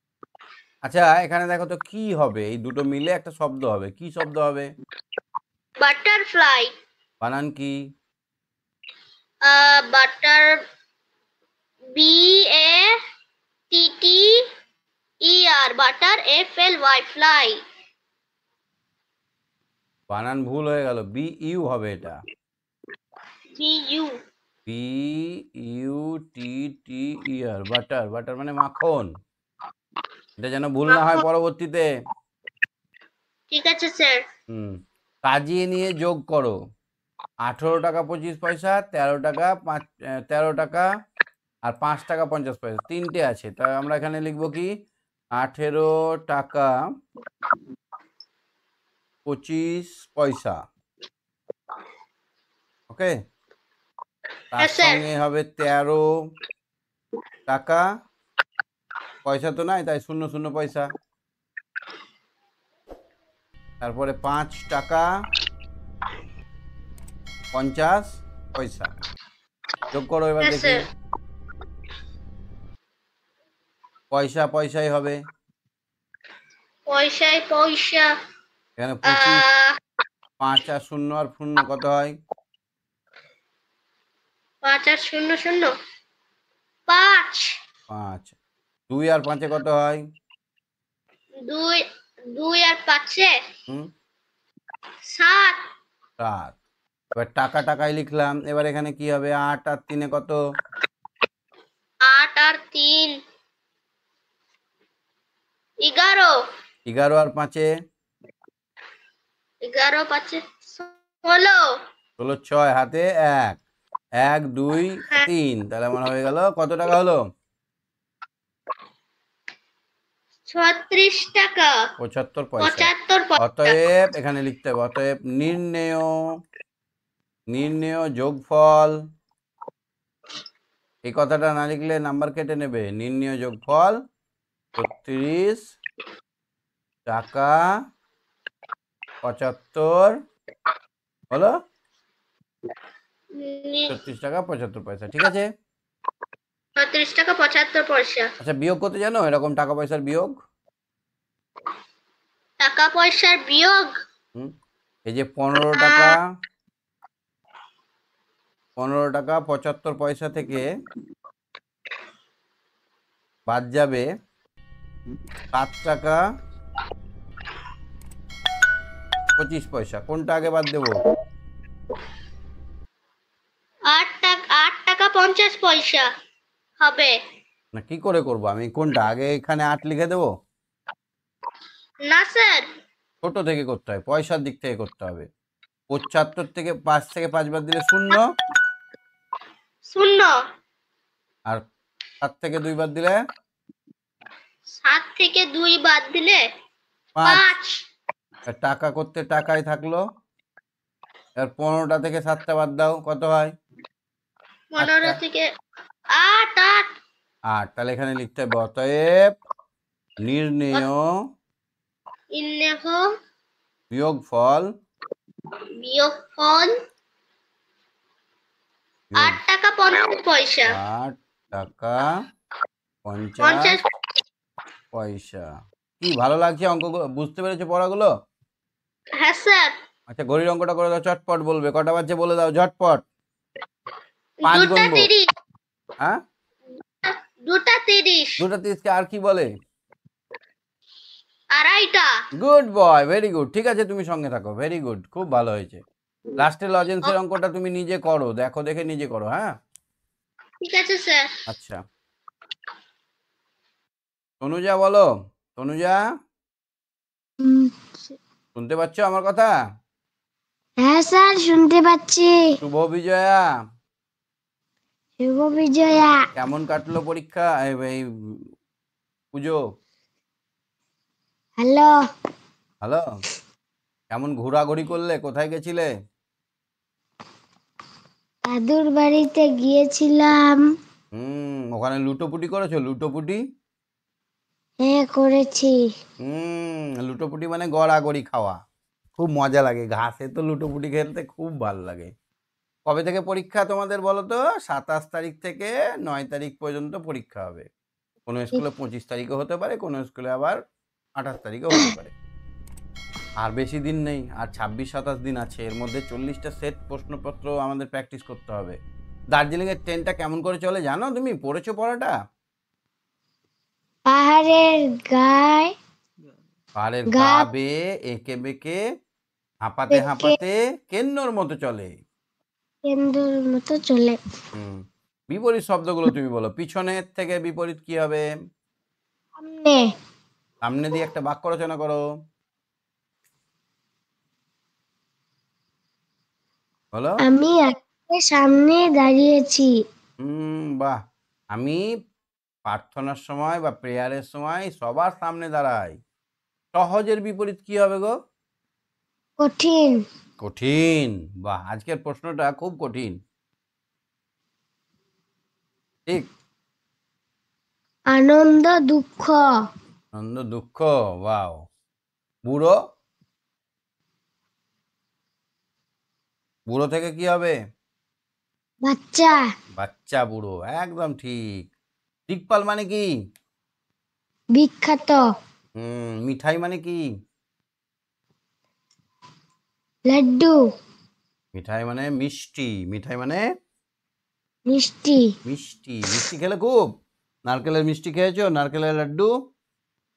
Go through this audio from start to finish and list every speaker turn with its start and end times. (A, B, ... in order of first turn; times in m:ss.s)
0:00.8-0:04.7 A
0:05.8-0:06.7 B
0:07.2-0:07.7 A
0:09.4-0:10.6 B
0:11.9-0:13.0 B
0:13.7-0:14.4 B
0:15.2-0:17.6 B
0:20.1-0:22.2 A
0:23.6-0:24.1 B
0:24.7-0:29.1 A
0:30.4-0:31.8 A
0:30.9-0:31.2 B
0:33.5-0:34.2 B
0:34.5-0:36.6 A
0:37.4-0:40.9 A
0:41.6-0:44.7 A
0:45.4-0:46.7 A
0:49.2-0:50.6 A
0:52.9-0:53.2 A
0:54.5-0:56.0 A
0:54.6-0:55.0 B
0:57.5-0:57.8 A
0:59.2-1:00.9 A
1:03.8-1:05.1 A
1:07.5-1:08.9 A
1:09.9-1:10.8 A
1:10.4-1:10.8 B
1:14.1-1:15.2 A
1:16.9-1:18.1 B
1:18.8-1:19.4 A
1:19.1-1:19.8 B
1:20.4-1:22.1 A
1:24.6-1:25.7 B
1:26.9-1:27.5 B
1:27.9-1:28.3 A
1:28.9-1:30.0 A
1:31.4-1:33.3 B
1:35.1-1:35.6 B
1:36.2-1:36.6 A
1:37.2-1:40.4 A
1:42.0-1:43.2 B
1:45.8-1:46.3 B
1:46.9-1:47.7 A
1:49.6-1:51.6 B
1:52.2-1:53.6 A
1:54.2-1:57.2 A
2:00.5-2:01.7 B
2:02.0-2:02.9 A
2:02.6-2:03.8 B
2:03.4-2:06.1 A
2:07.5-2:09.0 A
2:11.0-2:14.0 A
2:14.8-2:15.7 A
2:17.1-2:17.6 A
2:19.2-2:20.2 A
2:23.3-2:23.9 B
2:23.9-2:25.5 A
2:26.8-2:28.3 B
2:28.4-2:30.4 A
2:32.6-2:34.0 B
2:35.0-2:36.2 A
2:35.7-2:36.1 B
2:38.8-2:40.6 A
2:43.5-2:44.0 A
2:45.5-2:46.2 A
2:49.4-2:51.0 A
2:53.9-2:56.1 B
2:56.8-2:57.1 B
2:57.7-3:00.3 A
3:02.1-3:02.7 B
3:03.2-3:05.3 A
3:05.9-3:08.3 A
3:09.9-3:10.3 B
3:12.2-3:13.2 A
3:14.8-3:16.4 B
3:17.2-3:17.5 A
3:17.2-3:17.8 B
3:18.5-3:20.0 A
3:21.4-3:23.5 A
3:24.7-3:25.5 B
3:24.8-3:25.2 A
3:26.1-3:26.9 B
3:27.5-3:29.3 A
3:30.2-3:31.0 A
3:32.3-3:33.0 B
3:33.9-3:34.7 A
3:35.8-3:36.7 B
3:39.2-3:40.7 B
3:40.7-3:42.1 A
3:43.0-3:43.8 A
3:43.4-3:43.8 B
3:44.9-3:45.5 A
3:46.0-3:48.1 A
3:49.2-3:49.7 B
3:50.1-3:53.0 A
3:54.4-3:55.2 B
3:54.4-3:55.1 A
3:57.0-3:58.4 B
3:58.4-3:59.5 A
4:01.5-4:02.1 B
4:02.4-4:05.8 A
4:06.4-4:09.5 A
4:10.6-4:11.3 B
4:11.5-4:11.8 A
4:14.4-4:16.0 A
4:17.4-4:17.7 C
4:18.5-4:19.5 A
4:20.8-4:22.4 C
4:22.6-4:23.4 A
4:25.2-4:26.2 C
4:26.4-4:28.4 A
4:29.3-4:29.6 A
4:31.6-4:31.9 C
4:34.1-4:35.9 A
4:38.5-4:40.6 C
4:41.1-4:43.4 A
4:44.8-4:45.8 C
4:46.2-4:48.6 A
4:49.2-4:52.1 A
4:52.9-4:57.7 A
4:58.3-5:00.6 A
5:01.2-5:02.1 A
5:03.4-5:08.8 A
5:09.3-5:12.1 A
5:14.1-5:15.7 C
5:16.8-5:18.8 A
5:17.1-5:17.5 C
5:19.6-5:21.9 A
5:19.9-5:20.4 C
5:22.8-5:24.2 C
5:24.5-5:28.2 A
5:29.4-5:29.9 C
5:30.6-5:32.0 A
5:36.9-5:37.2 A
5:37.2-5:39.7 C
5:40.2-5:41.0 A
5:41.5-5:41.8 A
5:42.7-5:46.0 A
5:46.7-5:48.1 A
5:49.4-5:50.0 C
5:50.4-5:53.2 A
5:58.1-5:59.4 C
6:00.1-6:01.6 A
6:02.5-6:02.7 A
6:06.7-6:07.5 A
6:08.8-6:09.4 C
6:09.8-6:11.7 A
6:12.3-6:13.1 A
6:14.5-6:15.2 C
6:15.8-6:17.0 A
6:20.1-6:20.6 C
6:21.5-6:23.4 A
6:24.7-6:25.3 C
6:25.4-6:26.8 A
6:27.5-6:29.3 A